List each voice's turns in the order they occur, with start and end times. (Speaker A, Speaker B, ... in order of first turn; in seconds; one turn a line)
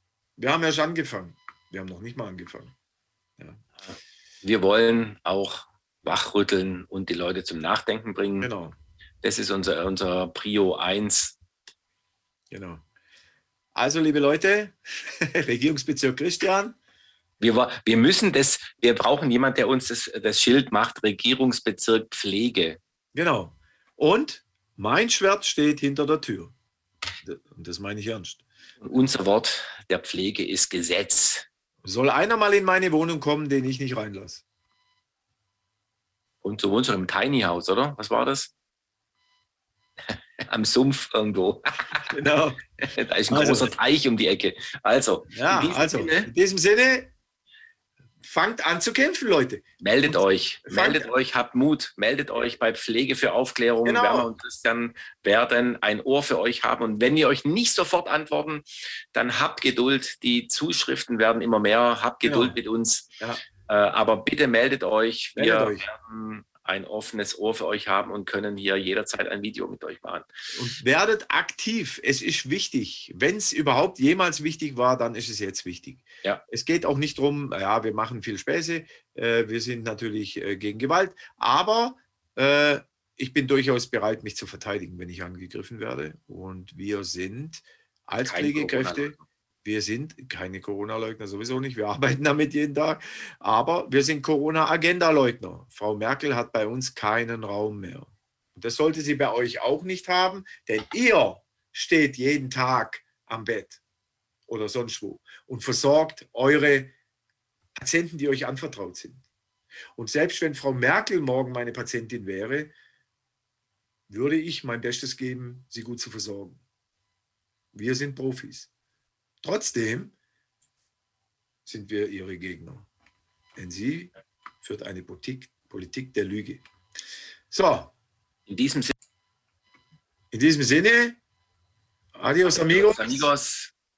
Speaker A: 0.4-2.7
Speaker B: 3.9-8.5
Speaker A: 8.4-8.7
Speaker B: 9.2-11.4
Speaker A: 12.5-12.8
Speaker A: 13.7-16.8
Speaker B: 17.4-22.8
Speaker A: 23.1-26.5
Speaker A: 27.2-28.4
Speaker B: 28.8-31.5
Speaker A: 31.8-34.4
Speaker B: 36.4-38.5
Speaker B: 40.4-42.0
Speaker A: 42.1-42.6
Speaker B: 42.8-46.3
Speaker A: 43.3-43.7
Speaker A: 45.3-47.1
Speaker A: 48.2-51.0
Speaker B: 49.8-58.6
Speaker A: 53.8-54.3
Speaker B: 59.1-63.1
Speaker A: 62.2-62.5
Speaker B: 63.6-70.2
Speaker A: 65.3-65.8
Speaker A: 70.5-103.8
Speaker B: 88.2-89.2
Speaker A: 104.5-106.9
Speaker A: 107.8-109.2
Speaker A: 109.9-112.7
Speaker A: 114.1-116.6
Speaker A: 117.7-118.7
Speaker A: 119.4-120.1
Speaker A: 121.7-122.9
Speaker A: 123.5-126.6
Speaker A: 127.5-127.9
Speaker B: 128.5-128.9
Speaker A: 130.3-131.2
Speaker A: 132.1-133.3
Speaker B: 132.4-133.7